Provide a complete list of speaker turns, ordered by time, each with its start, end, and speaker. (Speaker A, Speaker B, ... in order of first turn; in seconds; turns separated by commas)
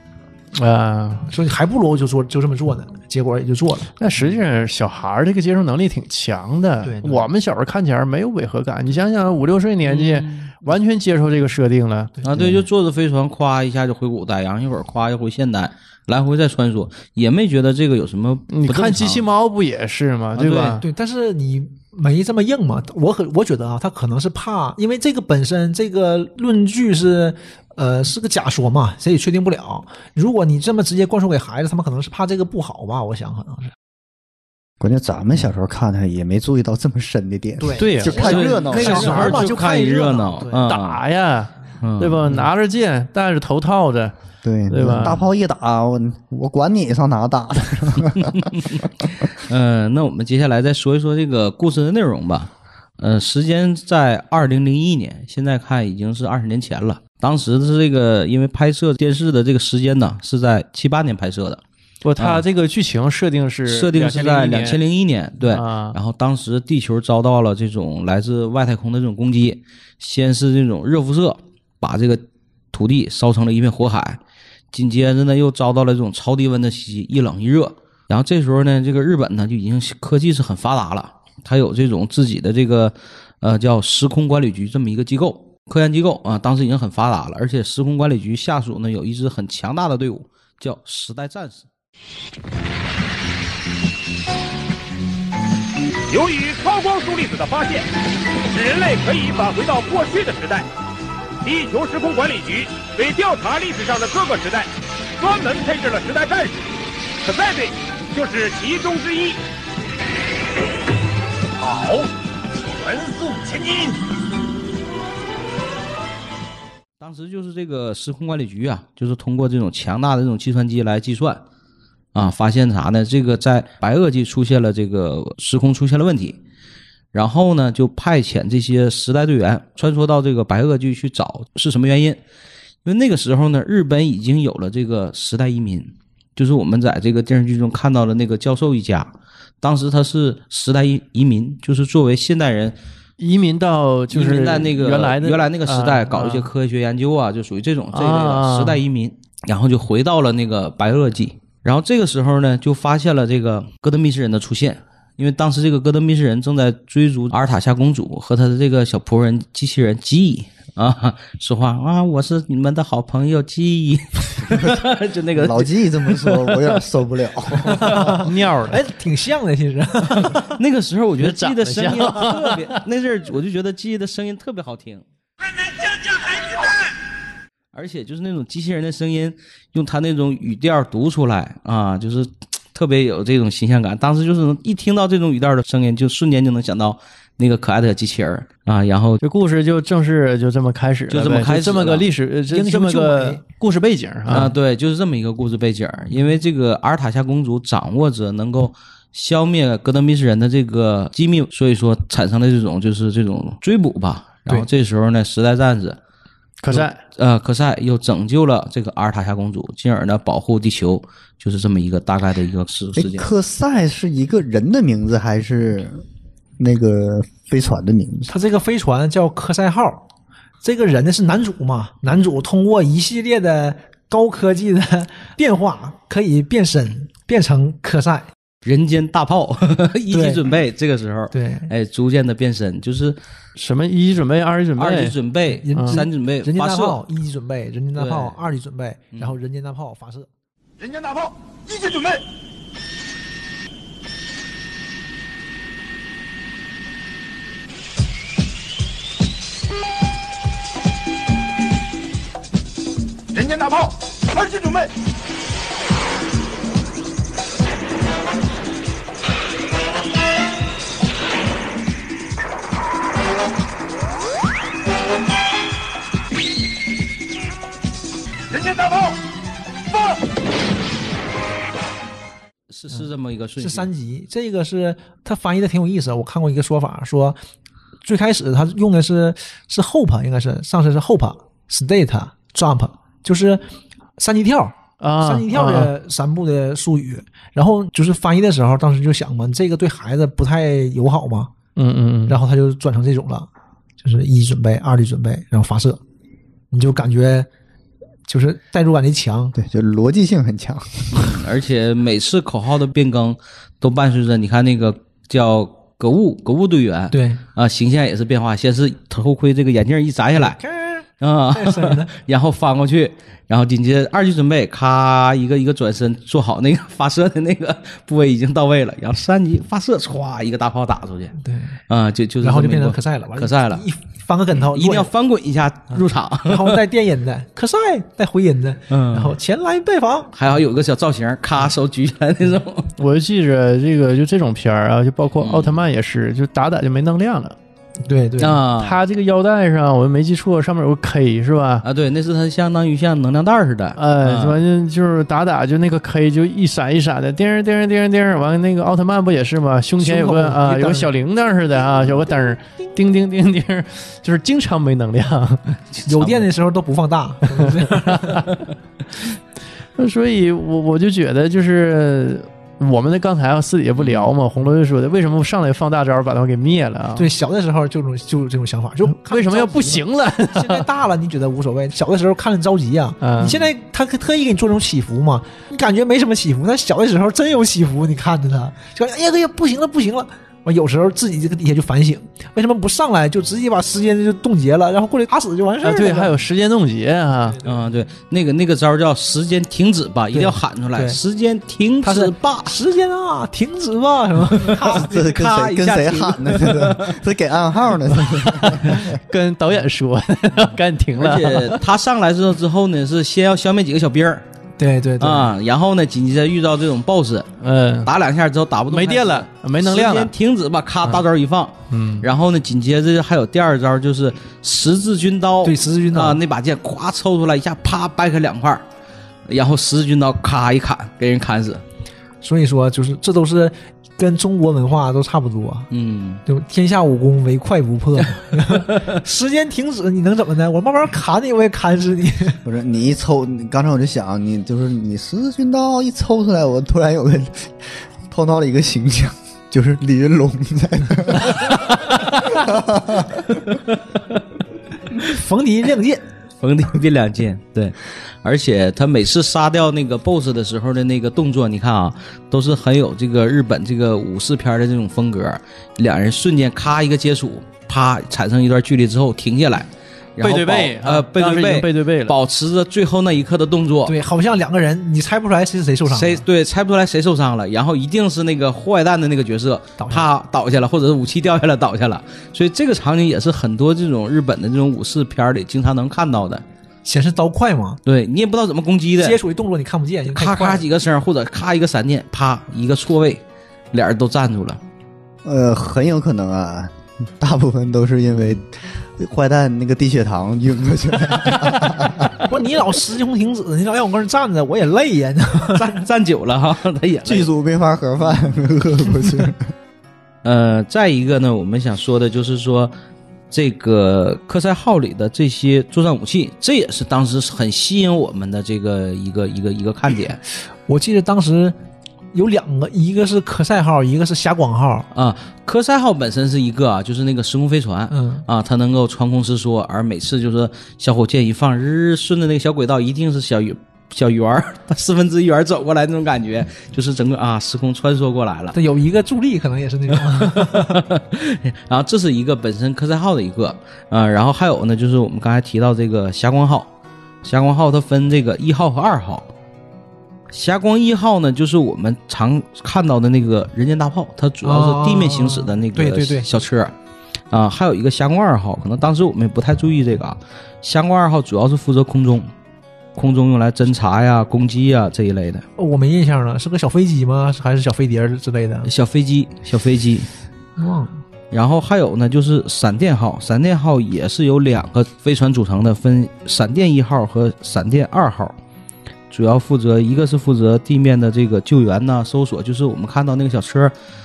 Speaker A: 0.5-1.3, Speaker B: 1.3-3.9, Speaker A: 4.0-12.6, Speaker B: 6.8-7.3, Speaker C: 9.8-10.5, Speaker C: 12.2-19.2, Speaker A: 18.5-20.8, Speaker C: 20.4-20.8, Speaker B: 20.8-33.7, Speaker D: 34.8-39.4, Speaker B: 37.6-40.7, Speaker A: 37.8-39.4, Speaker C: 38.1-41.0, Speaker A: 40.6-44.1, Speaker C: 41.8-42.4, Speaker D: 44.4-49.0, Speaker A: 44.7-45.2, Speaker C: 48.1-61.6, Speaker A: 62.0-64.8, Speaker C: 62.2-62.4, Speaker C: 63.7-74.2, Speaker A: 65.5-66.0, Speaker C: 74.7-91.7, Speaker E: 96.1-97.9, Speaker E: 98.5-100.7, Speaker E: 101.4-106.7, Speaker E: 107.2-109.4, Speaker E: 111.6-112.1, Speaker E: 112.6-114.0, Speaker C: 117.0-121.4, Speaker C: 122.1-126.4, Speaker C: 127.1-132.2, Speaker C: 132.8-142.8, Speaker A: 143.2-146.5, Speaker C: 144.1-166.7, Speaker A: 147.9-148.8, Speaker D: 164.4-164.8, Speaker D: 165.3-168.2, Speaker B: 167.8-170.5, Speaker A: 168.1-168.8, Speaker C: 170.2-175.0, Speaker A: 171.2-172.8, Speaker C: 177.7-189.2, Speaker A: 189.2-194.5, Speaker C: 191.1-192.1, Speaker B: 192.5-193.4, Speaker C: 194.3-206.0, Speaker A: 206.6-207.0, Speaker C: 206.7-213.3, Speaker D: 212.9-216.0, Speaker D: 216.6-218.3, Speaker B: 218.3-220.0, Speaker B: 220.6-228.3, Speaker C: 228.6-233.2, Speaker B: 230.1-230.5, Speaker B: 231.3-231.7, Speaker A: 233.6-235.1, Speaker C: 234.8-237.0, Speaker B: 235.5-240.3, Speaker A: 235.7-236.0, Speaker C: 237.9-238.4, Speaker E: 240.8-242.2, Speaker E: 253.3-254.9, Speaker E: 268.5-269.1, Speaker C: 272.7-273.9, Speaker B: 273.6-277.4, Speaker B: 278.0-283.6, Speaker B: 284.2-291.5, Speaker A: 285.0-285.9, Speaker A: 291.8-292.4, Speaker B: 292.3-293.5, Speaker B: 294.0-296.0, Speaker B: 296.7-297.5, Speaker B: 298.3-299.6, Speaker D: 299.5-301.4, Speaker C: 301.1-310.6, Speaker B: 307.1-307.4, Speaker B: 310.4-312.1, Speaker C: 311.2-321.4, Speaker B: 321.4-321.8, Speaker C: 321.9-323.8, Speaker B: 322.4-325.1, Speaker C: 324.5-326.8, Speaker B: 326.4-330.4, Speaker C: 328.9-329.4, Speaker C: 330.3-332.9, Speaker A: 333.0-337.6, Speaker C: 335.4-335.8, Speaker B: 338.0-338.6, Speaker C: 338.4-339.0, Speaker A: 338.8-341.8, Speaker C: 341.8-344.6, Speaker A: 344.0-355.8, Speaker B: 350.0-351.1, Speaker C: 355.9-356.5, Speaker B: 356.1-358.5, Speaker A: 360.0-367.3, Speaker C: 364.0-364.3, Speaker B: 367.1-386.3, Speaker A: 369.1-370.9, Speaker A: 373.2-373.6, Speaker A: 385.8-387.6, Speaker C: 387.6-392.8, Speaker B: 390.3-391.2, Speaker B: 392.0-395.3, Speaker C: 394.7-397.2, Speaker D: 394.8-399.2, Speaker A: 398.4-401.8, Speaker C: 401.1-404.4, Speaker B: 404.8-405.5, Speaker C: 405.2-407.5, Speaker A: 407.6-408.1, Speaker C: 408.0-418.8, Speaker A: 408.9-410.3, Speaker A: 411.9-412.2, Speaker B: 415.6-416.4, Speaker C: 419.5-421.8, Speaker B: 422.4-425.9, Speaker C: 425.9-426.4, Speaker B: 426.4-432.6, Speaker C: 428.8-429.0, Speaker D: 432.6-443.5, Speaker C: 443.7-444.4, Speaker B: 445.2-446.2, Speaker C: 446.6-464.1, Speaker A: 460.4-462.4, Speaker B: 464.1-466.4, Speaker C: 466.1-476.6, Speaker B: 470.0-470.3, Speaker B: 477.0-478.0, Speaker C: 478.1-479.4, Speaker B: 479.2-480.9, Speaker C: 480.3-484.8, Speaker D: 485.4-492.4, Speaker B: 492.4-495.9, Speaker C: 495.7-497.5, Speaker D: 497.2-499.7, Speaker C: 500.4-502.9, Speaker C: 503.5-510.4, Speaker B: 510.9-511.8, Speaker B: 512.3-515.1, Speaker C: 515.1-528.8, Speaker B: 518.1-518.4, Speaker B: 528.7-531.0, Speaker C: 530.4-536.9, Speaker C: 537.4-539.5, Speaker C: 540.5-546.9, Speaker B: 544.6-546.5, Speaker C: 547.5-552.5, Speaker C: 553.1-555.6, Speaker B: 555.8-558.9, Speaker C: 558.8-560.3, Speaker B: 560.8-561.2, Speaker C: 561.5-568.5, Speaker C: 569.3-573.9